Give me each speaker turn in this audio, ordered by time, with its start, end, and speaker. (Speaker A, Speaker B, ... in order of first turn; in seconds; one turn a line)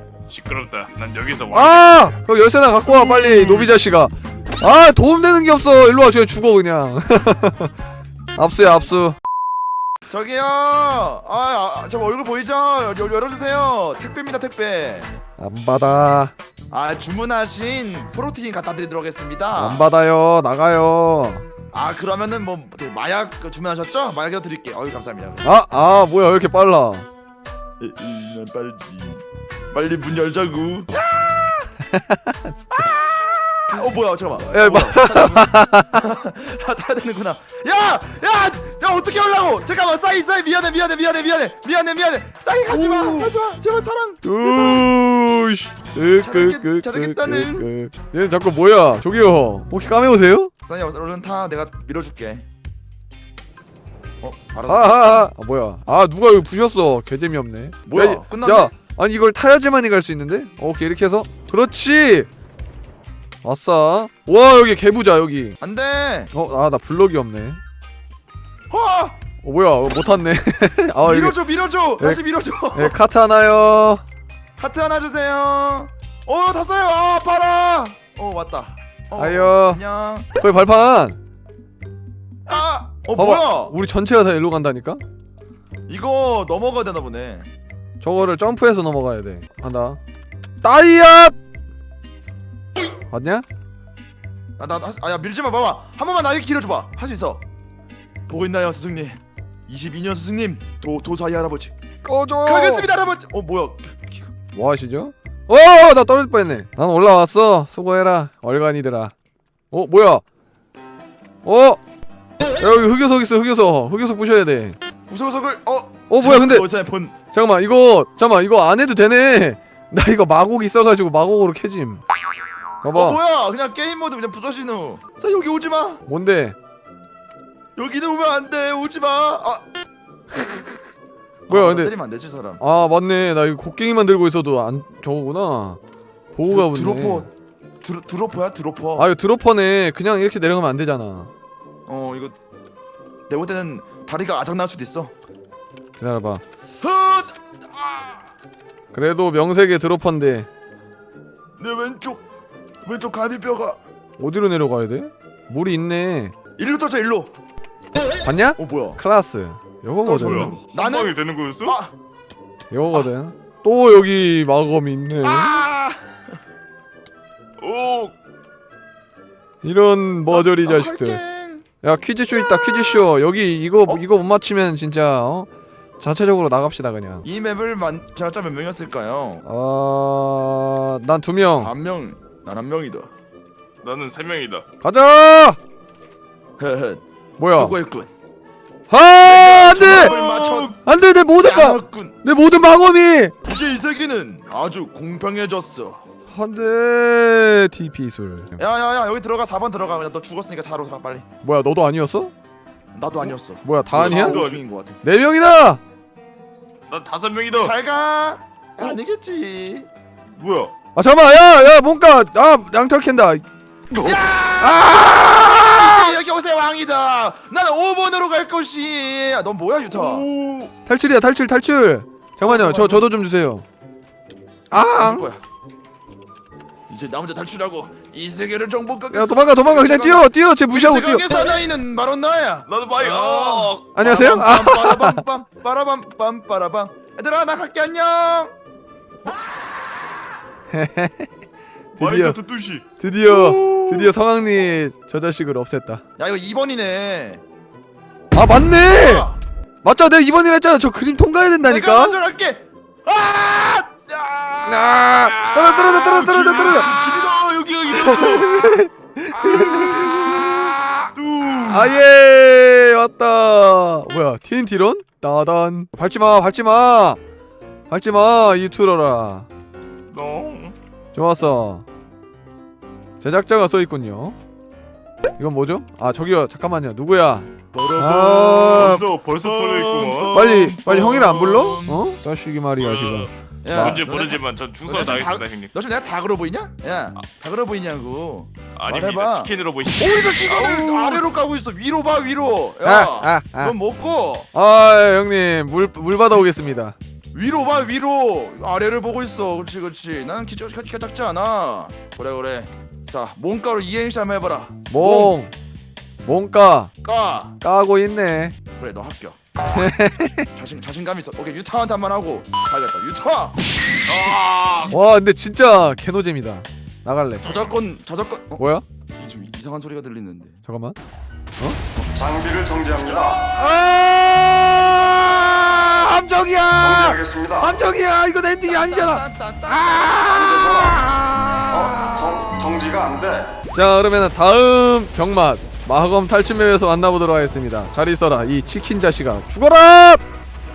Speaker A: 0.3-2.1
Speaker B: 1.5-7.7
Speaker B: 8.3-9.2
Speaker C: 10.1-15.2
Speaker B: 15.4-16.3
Speaker C: 16.7-19.8
Speaker B: 19.6-21.4
Speaker C: 21.7-25.4
Speaker B: 25.4-27.1
Speaker C: 27.8-31.7
Speaker B: 31.9-32.6
Speaker C: 32.7-44.9
Speaker B: 34.4-36.0
Speaker B: 42.7-43.3
Speaker B: 44.2-50.5
Speaker C: 46.2-47.7
Speaker C: 50.6-52.5
Speaker C: 54.2-55.3
Speaker B: 54.7-62.3
Speaker C: 57.9-58.7
Speaker B: 63.4-65.6
Speaker C: 65.6-66.3
Speaker B: 66.3-67.6
Speaker C: 68.7-69.2
Speaker B: 69.4-71.4
Speaker C: 71.0-72.9
Speaker B: 72.0-74.0
Speaker C: 74.6-80.3
Speaker B: 79.2-79.8
Speaker B: 80.4-81.2
Speaker C: 82.5-83.8
Speaker B: 83.1-85.0
Speaker C: 85.9-87.5
Speaker B: 88.0-90.0
Speaker B: 90.6-91.3
Speaker B: 93.1-93.4
Speaker C: 94.6-97.4
Speaker C: 98.3-101.7
Speaker B: 102.0-102.9
Speaker C: 102.4-104.2
Speaker B: 104.5-109.1
Speaker B: 109.7-110.2
Speaker B: 111.4-111.8
Speaker B: 112.6-114.8
Speaker C: 115.1-117.1
Speaker B: 116.1-116.7
Speaker B: 117.3-122.0
Speaker B: 122.8-123.2
Speaker C: 122.9-126.0
Speaker B: 126.1-126.5
Speaker C: 127.8-129.6
Speaker B: 130.3-130.8
Speaker B: 131.5-131.9
Speaker C: 131.5-132.6
Speaker B: 132.6-135.8
Speaker B: 136.3-137.3
Speaker C: 136.5-137.3
Speaker C: 137.8-139.1
Speaker B: 138.9-141.3
Speaker C: 141.9-142.3
Speaker C: 143.3-145.1
Speaker B: 146.0-146.4
Speaker C: 146.8-148.3
Speaker B: 148.9-150.5
Speaker C: 151.6-152.2
Speaker C: 152.8-153.8
Speaker B: 154.2-156.3
Speaker C: 156.6-157.3
Speaker B: 158.2-160.6
Speaker C: 158.6-159.0
Speaker C: 160.0-161.9
Speaker A: 160.1-161.8
Speaker B: 162.7-165.6
Speaker C: 165.2-166.2
Speaker A: 167.6-168.1
Speaker B: 169.6-171.2
Speaker C: 170.3-171.7
Speaker B: 171.8-177.2
Speaker C: 177.2-179.4
Speaker B: 179.4-181.7
Speaker C: 181.6-183.1
Speaker A: 183.8-184.6
Speaker B: 184.8-185.6
Speaker C: 186.6-188.1
Speaker B: 187.4-187.8
Speaker B: 188.9-190.1
Speaker C: 189.2-190.7
Speaker A: 189.9-190.7
Speaker B: 190.8-193.3
Speaker C: 191.4-192.2
Speaker C: 193.4-196.0
Speaker B: 196.3-198.5
Speaker C: 198.6-201.2
Speaker B: 201.4-202.3
Speaker C: 202.9-205.0
Speaker B: 203.6-204.4
Speaker A: 203.9-204.6
Speaker B: 205.0-205.8
Speaker A: 206.9-207.8
Speaker C: 207.6-209.9
Speaker A: 210.3-210.7
Speaker B: 210.9-213.4
Speaker C: 213.9-220.3
Speaker B: 214.6-216.2
Speaker A: 219.8-220.7
Speaker B: 220.8-223.6
Speaker C: 222.4-223.1
Speaker B: 224.7-225.3
Speaker C: 224.7-225.4
Speaker C: 226.9-238.5
Speaker B: 229.1-231.5
Speaker A: 232.7-233.9
Speaker B: 233.9-235.2
Speaker B: 240.7-241.3
Speaker B: 241.9-242.4
Speaker A: 242.0-244.1
Speaker B: 243.0-246.0
Speaker C: 246.2-247.4
Speaker B: 248.3-249.3
Speaker C: 248.8-249.4
Speaker B: 249.8-252.2
Speaker C: 251.6-254.9
Speaker B: 254.6-256.9
Speaker A: 255.1-258.5
Speaker C: 256.2-258.2
Speaker B: 257.9-260.4
Speaker C: 259.3-261.1
Speaker A: 261.1-262.0
Speaker B: 261.6-267.2
Speaker B: 267.9-269.5
Speaker A: 270.1-270.7
Speaker B: 271.1-271.8
Speaker B: 273.2-274.4
Speaker B: 275.4-279.1
Speaker C: 277.7-278.7
Speaker A: 278.5-281.6
Speaker C: 279.4-281.0
Speaker B: 280.3-284.0
Speaker C: 281.6-282.0
Speaker A: 282.8-285.7
Speaker C: 283.6-294.5
Speaker A: 288.7-291.3
Speaker B: 292.8-293.7
Speaker B: 294.5-296.9
Speaker C: 297.3-305.3
Speaker B: 304.9-305.5
Speaker B: 306.2-306.9
Speaker C: 307.0-307.6
Speaker B: 307.6-308.5
Speaker C: 308.8-309.4
Speaker B: 309.7-310.5
Speaker C: 310.5-313.6
Speaker A: 314.1-314.9
Speaker B: 314.9-317.6
Speaker C: 317.4-318.6
Speaker B: 318.6-318.8
Speaker C: 319.1-320.6
Speaker B: 320.7-320.9
Speaker D: 322.1-323.4
Speaker B: 323.3-332.8
Speaker D: 326.8-327.6
Speaker C: 328.6-330.9
Speaker D: 331.7-333.5
Speaker B: 333.7-340.2